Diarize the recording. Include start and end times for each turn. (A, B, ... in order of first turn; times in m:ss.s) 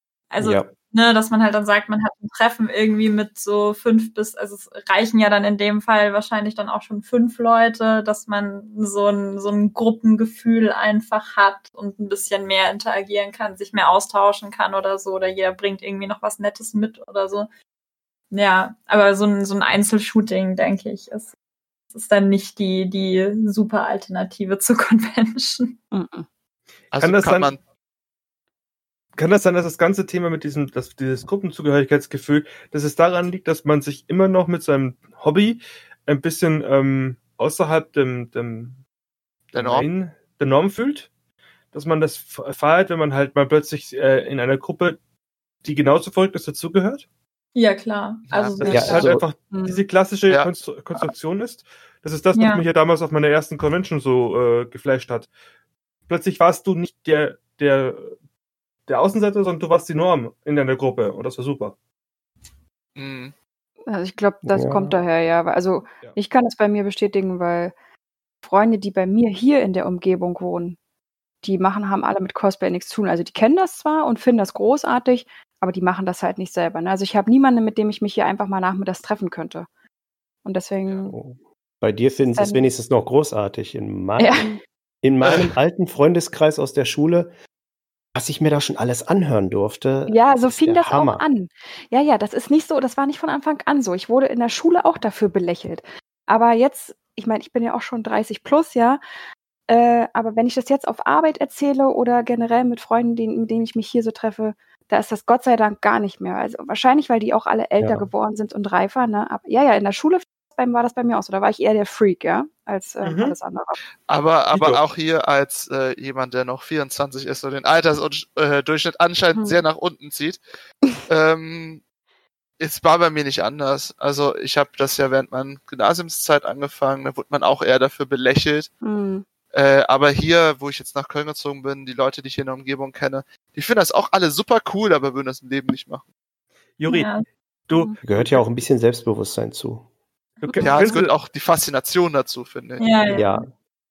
0:00.3-0:17.5 A
0:00.4-0:00.7 B
0:18.3-0:21.3 A
0:21.9-0:25.8 A
0:25.9-0:26.3 C
0:26.9-0:27.6 D
0:27.0-0:27.6 E
0:29.2-0:38.8 E
0:39.5-0:39.9 D
0:39.5-0:41.1 E
0:41.7-0:45.0 E
0:45.6-0:47.0 E
0:47.5-0:49.2 A
0:48.3-0:48.7 D
0:48.6-0:55.3 E
0:48.7-0:49.2 B
0:49.5-0:49.8 C
0:52.3-0:52.6 A
0:56.1-0:58.1 E
0:58.9-1:01.8 E
1:03.0-1:03.3 D
1:03.9-1:07.7 C
1:04.4-1:05.0 B
1:08.4-1:10.8 C
1:11.4-1:19.7 C
1:20.4-1:21.2 C
1:21.1-1:24.5 B
1:22.3-1:22.6 C
1:24.2-1:24.6 C
1:25.0-1:27.3 B
1:25.2-1:25.5 D
1:28.1-1:31.2 B
1:30.1-1:39.0 C
1:39.7-1:53.8 C
1:47.8-1:48.1 B
1:53.0-1:53.4 E
1:54.1-2:00.4 D
1:54.5-1:54.8 E
1:59.3-1:59.6 C
2:00.9-2:01.8 D
2:02.6-2:08.7 D
2:08.8-2:09.2 C
2:09.5-2:16.1 D
2:16.8-2:17.1 E
2:16.8-2:17.3 A
2:17.7-2:18.4 E
2:17.7-2:18.0 C
2:18.0-2:19.8 B
2:20.4-2:21.1 E
2:20.4-2:21.0 A
2:20.6-2:22.8 D
2:22.8-2:23.5 A
2:23.1-2:23.5 B